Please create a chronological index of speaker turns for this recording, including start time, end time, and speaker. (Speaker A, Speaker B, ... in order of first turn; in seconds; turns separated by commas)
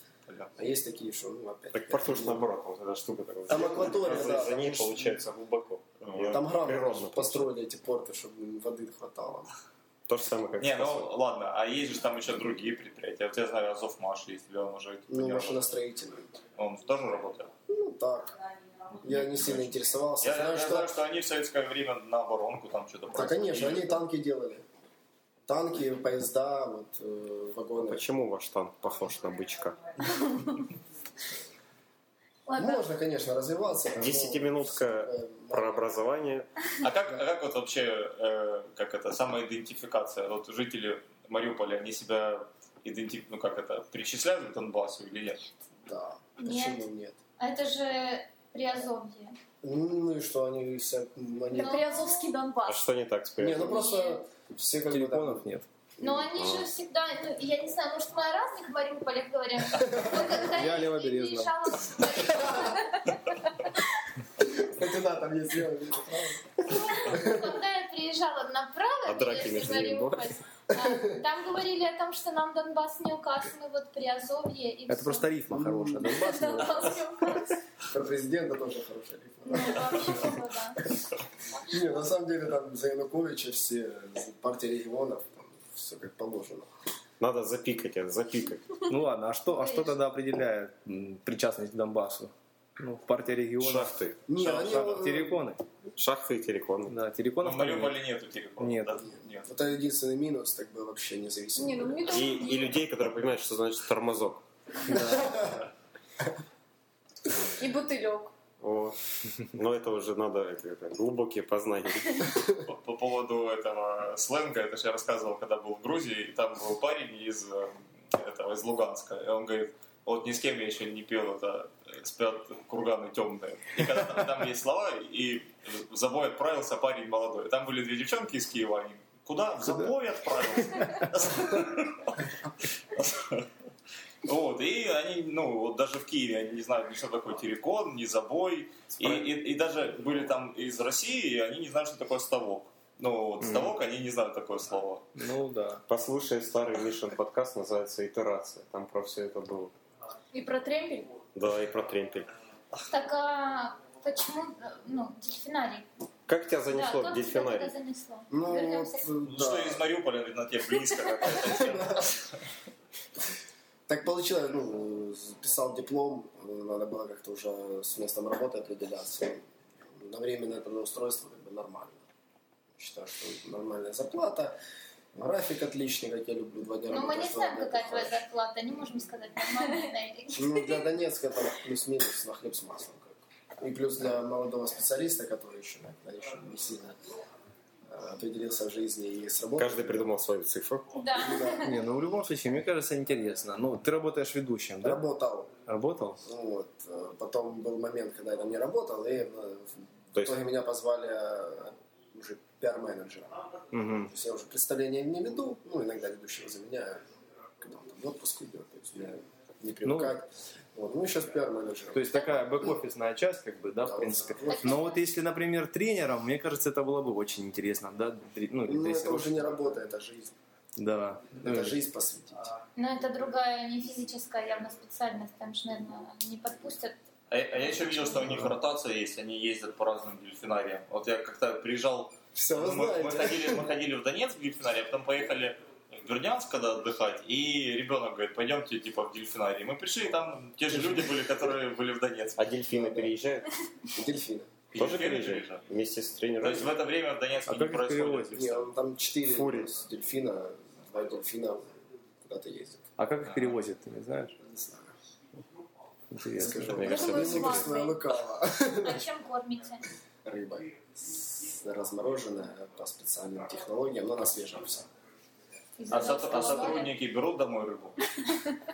Speaker A: 0.6-2.5, Speaker B: 1.7-7.5, Speaker A: 3.5-5.2, Speaker C: 3.9-4.3, Speaker C: 6.0-6.3, Speaker A: 6.2-9.5, Speaker B: 10.1-11.1, Speaker C: 10.6-15.7, Speaker A: 15.1-16.4, Speaker C: 16.6-17.5, Speaker A: 17.7-18.4, Speaker A: 19.0-20.9, Speaker C: 19.1-19.6, Speaker C: 20.2-24.0, Speaker A: 23.1-24.6, Speaker A: 25.5-28.0, Speaker B: 27.9-29.8, Speaker D: 32.5-32.8, Speaker A: 32.6-35.9, Speaker B: 33.9-36.5, Speaker C: 36.8-45.4, Speaker A: 45.9-47.2, Speaker D: 46.4-46.8, Speaker D: 47.4-49.4, Speaker A: 49.6-51.8, Speaker E: 51.5-52.8, Speaker D: 51.6-52.3, Speaker B: 52.7-53.9, Speaker A: 53.4-55.5, Speaker D: 53.7-54.2, Speaker F: 54.9-55.7, Speaker D: 56.0-63.7, Speaker B: 56.3-56.7, Speaker F: 60.4-61.7, Speaker A: 64.4-67.4, Speaker D: 66.7-75.4, Speaker B: 69.1-70.3, Speaker A: 70.7-71.1, Speaker F: 74.9-77.0, Speaker A: 75.5-76.1, Speaker E: 76.1-77.6, Speaker A: 77.9-80.4, Speaker D: 79.5-80.9, Speaker D: 81.6-81.9, Speaker A: 81.7-86.7, Speaker B: 87.2-88.8, Speaker F: 88.9-95.6, Speaker D: 89.5-90.0, Speaker B: 93.6-94.2, Speaker A: 94.3-95.4, Speaker B: 96.0-97.0, Speaker F: 96.9-98.0, Speaker C: 97.4-99.5, Speaker F: 98.6-99.0, Speaker A: 99.5-102.1, Speaker E: 101.6-102.7, Speaker B: 102.1-105.3, Speaker A: 105.0-105.5, Speaker E: 107.6-108.3, Speaker B: 108.6-112.3, Speaker C: 112.7-132.3, Speaker C: 132.9-133.5, Speaker C: 134.2-145.2, Speaker F: 145.2-145.8, Speaker B: 145.9-149.7, Speaker E: 150.3-151.1, Speaker B: 151.3-152.3, Speaker D: 152.9-155.9, Speaker B: 156.3-157.7, Speaker D: 156.7-159.1, Speaker A: 158.3-159.8, Speaker C: 159.3-162.3, Speaker A: 161.3-162.1, Speaker A: 163.9-169.4, Speaker A: 170.0-172.1, Speaker A: 172.8-174.5, Speaker A: 175.1-178.2, Speaker D: 176.9-180.9, Speaker A: 180.3-187.0, Speaker A: 187.9-190.1, Speaker B: 189.6-191.0, Speaker D: 190.9-191.8, Speaker A: 191.2-191.8, Speaker F: 191.6-195.0, Speaker A: 194.8-195.5, Speaker F: 195.7-196.2, Speaker A: 196.2-203.4, Speaker B: 200.2-200.4, Speaker F: 203.7-204.1, Speaker A: 204.0-207.0, Speaker A: 207.6-212.7, Speaker F: 209.8-210.2, Speaker F: 211.9-219.7, Speaker A: 213.8-214.8, Speaker D: 214.5-215.0, Speaker A: 218.7-220.3, Speaker F: 220.8-221.8, Speaker A: 221.4-222.5, Speaker D: 222.8-227.0, Speaker C: 227.3-242.5, Speaker D: 227.6-228.4, Speaker A: 232.3-233.6, Speaker A: 240.7-241.1, Speaker B: 242.4-243.5, Speaker A: 242.7-243.1, Speaker A: 243.9-244.6, Speaker C: 244.7-245.6, Speaker B: 244.8-246.8, Speaker C: 246.4-248.7, Speaker F: 247.5-248.5, Speaker A: 248.3-251.7, Speaker B: 249.3-249.7, Speaker A: 252.2-252.9, Speaker F: 253.0-254.3, Speaker C: 253.3-253.6, Speaker A: 254.4-254.9, Speaker F: 256.1-256.9, Speaker A: 256.4-259.0, Speaker B: 256.6-257.7, Speaker E: 256.8-258.0, Speaker D: 258.8-259.9, Speaker A: 260.2-264.9, Speaker D: 265.8-266.9, Speaker C: 265.9-268.0